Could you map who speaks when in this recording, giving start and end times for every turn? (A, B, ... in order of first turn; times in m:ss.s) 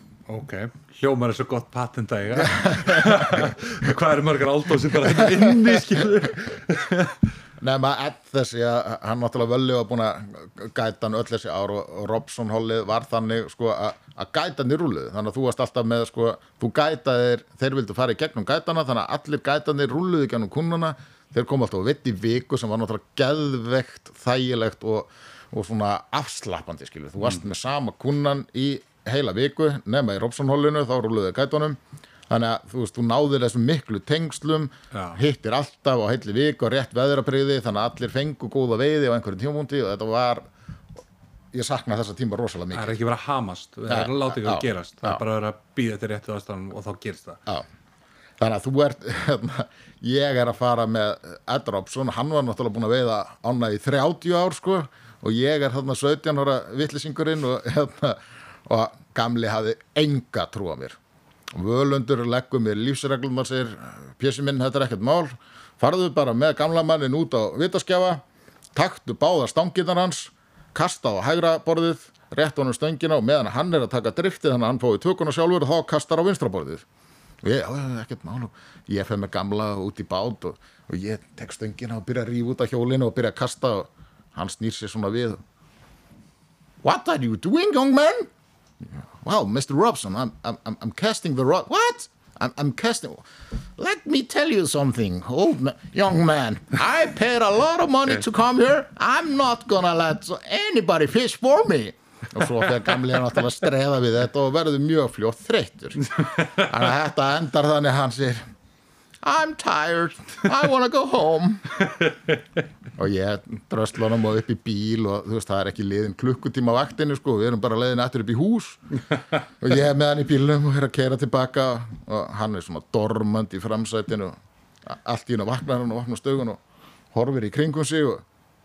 0:00.3-0:07.2 A
0:02.4-0:03.5 B
0:05.1-0:06.0 B
0:07.6-0:40.5 B
0:34.9-0:35.2 A
0:41.5-0:43.0 B
0:42.7-0:47.4 A
0:43.9-0:45.2 B
0:48.4-1:01.0 B
1:01.5-1:16.8 B
1:17.4-1:25.4 B
1:26.8-1:28.3 B
1:28.8-1:48.5 B
1:46.2-1:46.7 A
1:49.2-1:51.7 B
1:51.9-1:52.4 A
1:53.0-1:59.0 B
1:59.6-2:06.6 B
2:07.1-2:08.2 B